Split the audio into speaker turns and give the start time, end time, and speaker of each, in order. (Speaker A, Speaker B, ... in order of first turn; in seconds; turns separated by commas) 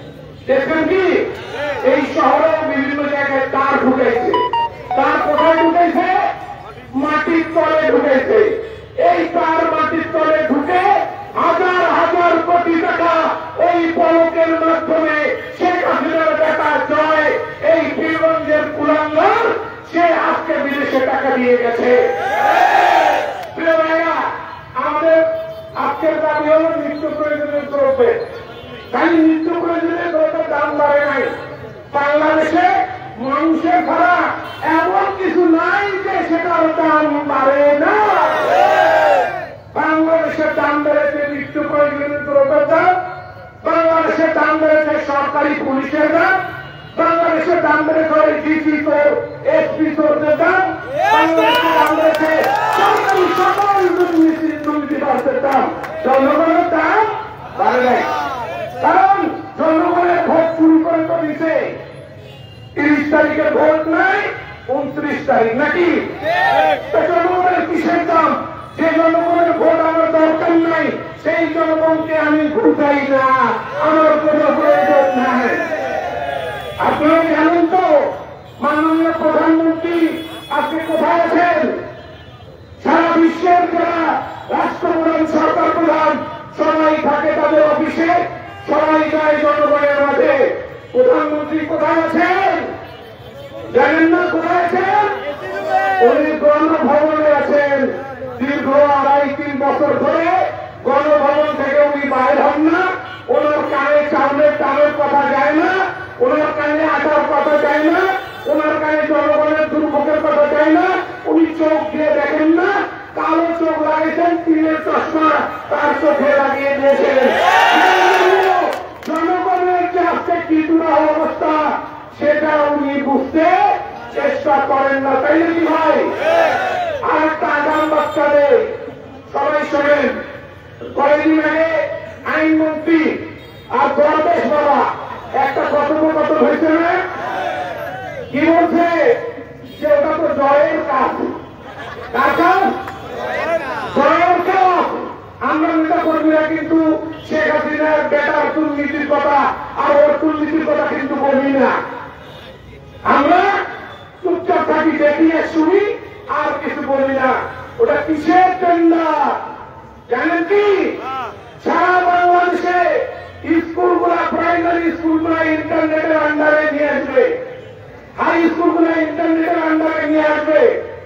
Speaker A: 0.5-1.1, Speaker A: 1.9-4.4, Speaker A: 4.9-6.2, Speaker A: 7.0-22.0, Speaker A: 23.5-24.2, Speaker A: 24.8-25.2, Speaker A: 25.8-28.1, Speaker A: 28.9-31.3, Speaker A: 31.9-38.5, Speaker A: 39.7-42.9, Speaker A: 43.6-46.3, Speaker A: 47.0-57.0, Speaker A: 57.6-58.1, Speaker A: 58.8-61.7, Speaker A: 62.8-66.0, Speaker A: 66.9-75.6, Speaker A: 76.8-77.9, Speaker A: 78.6-81.8, Speaker A: 82.8-92.7, Speaker A: 93.7-95.1, Speaker A: 96.0-97.8, Speaker A: 98.4-121.6, Speaker A: 122.2-123.6, Speaker A: 124.1-126.1, Speaker A: 127.0-128.7, Speaker A: 129.3-130.2, Speaker A: 130.9-131.7, Speaker A: 132.3-133.2, Speaker A: 133.7-134.9, Speaker A: 135.4-137.0, Speaker A: 138.3-139.0, Speaker A: 139.8-141.2, Speaker A: 142.1-142.7, Speaker A: 143.9-151.7, Speaker A: 153.1-153.6, Speaker A: 154.2-159.3, Speaker A: 160.1-160.9, Speaker A: 161.6-162.8, Speaker A: 163.4-167.3, Speaker A: 168.2-170.7